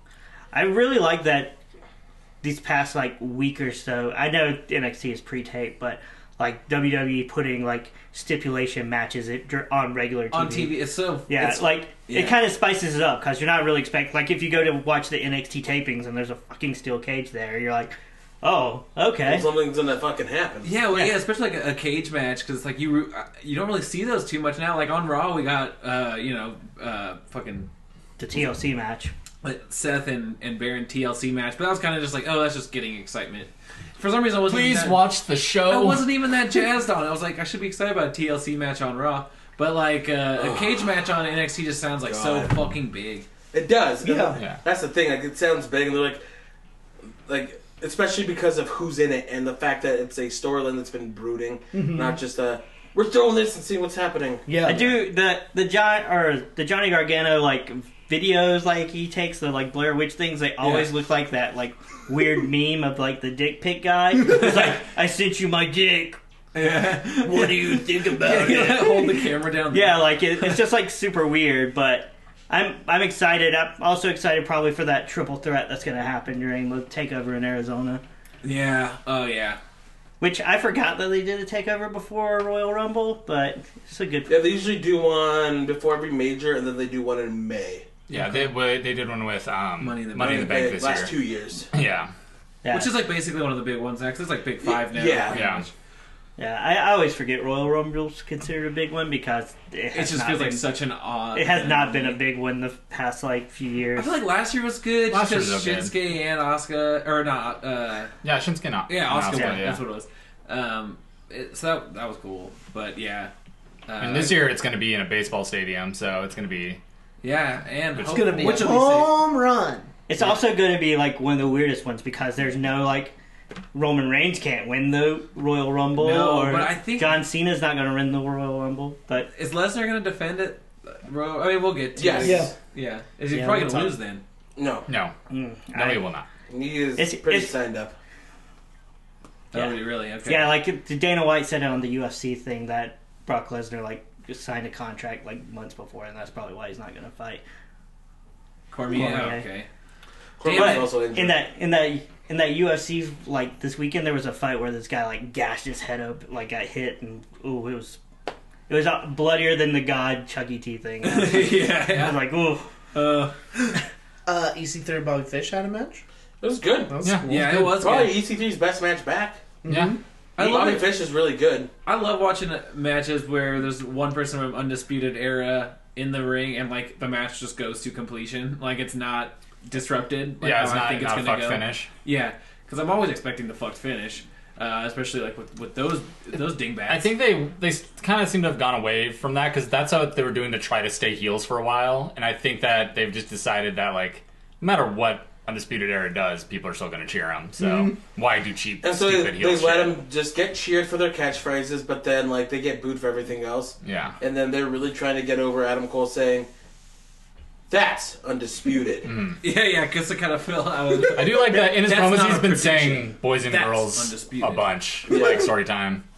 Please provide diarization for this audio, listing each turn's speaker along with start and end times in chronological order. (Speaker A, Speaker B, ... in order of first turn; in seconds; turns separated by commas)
Speaker A: 0.5-1.6, Speaker A: 2.4-19.5, Speaker B: 10.3-12.4, Speaker C: 19.2-20.7, Speaker B: 20.6-27.7, Speaker A: 20.9-21.2, Speaker A: 28.2-29.1, Speaker B: 29.4-43.3, Speaker D: 34.5-36.1, Speaker C: 40.4-40.9, Speaker C: 42.0-42.7, Speaker C: 43.5-46.2, Speaker E: 44.0-44.4, Speaker C: 47.3-54.7, Speaker E: 51.7-52.2, Speaker E: 54.5-55.0, Speaker A: 54.6-66.2, Speaker B: 60.6-60.9, Speaker B: 64.3-64.8, Speaker B: 66.5-70.6, Speaker E: 67.2-68.9, Speaker A: 68.6-69.0, Speaker A: 69.7-78.0, Speaker B: 78.4-79.6, Speaker A: 80.2-84.3, Speaker C: 84.3-87.9, Speaker D: 88.1-91.1, Speaker B: 88.1-88.5, Speaker B: 89.8-90.9, Speaker C: 90.2-91.7, Speaker D: 91.7-92.1, Speaker A: 92.6-93.0, Speaker B: 92.7-95.7, Speaker C: 94.6-95.4, Speaker D: 95.3-95.7, Speaker A: 96.4-100.7, Speaker B: 99.9-102.2, Speaker A: 101.3-104.2, Speaker B: 104.0-108.1, Speaker D: 105.1-105.9, Speaker D: 108.2-109.8, Speaker B: 108.9-113.3, Speaker A: 109.3-109.7, Speaker B: 113.9-114.5, Speaker D: 114.0-116.8, Speaker B: 117.2-119.2, Speaker D: 118.0-118.5, Speaker E: 118.0-119.9, Speaker A: 120.1-123.1, Speaker B: 120.2-120.4, Speaker A: 123.7-129.3, Speaker B: 126.0-127.2, Speaker B: 129.3-134.2, Speaker C: 132.0-132.5, Speaker E: 132.2-132.5, Speaker E: 133.3-134.0, Speaker C: 134.6-134.9, Speaker D: 134.9-135.1, Speaker A: 135.3-136.0, Speaker D: 135.7-136.3, Speaker C: 136.5-137.9, Speaker A: 137.0-137.5, Speaker B: 139.5-140.6, Speaker A: 139.5-147.4, Speaker B: 148.7-149.7, Speaker A: 148.9-149.5, Speaker C: 150.4-151.4, Speaker B: 150.4-151.0, Speaker A: 150.5-158.0, Speaker A: 158.7-162.7, Speaker B: 161.0-162.3, Speaker B: 162.9-163.4, Speaker E: 164.3-166.0, Speaker C: 166.4-167.0, Speaker E: 166.9-167.6, Speaker D: 167.0-167.7, Speaker B: 167.3-168.2, Speaker C: 167.7-169.4, Speaker E: 169.6-170.0, Speaker D: 169.7-170.0, Speaker B: 170.4-170.9, Speaker C: 170.4-171.7, Speaker B: 171.8-187.2, Speaker D: 180.4-181.9, Speaker D: 186.9-200.0, Speaker E: 197.6-197.9, Speaker C: 198.8-206.5, Speaker D: 203.8-204.2, Speaker C: 207.7-209.1, Speaker D: 209.1-209.4, Speaker B: 209.4-214.8, Speaker D: 211.0-216.0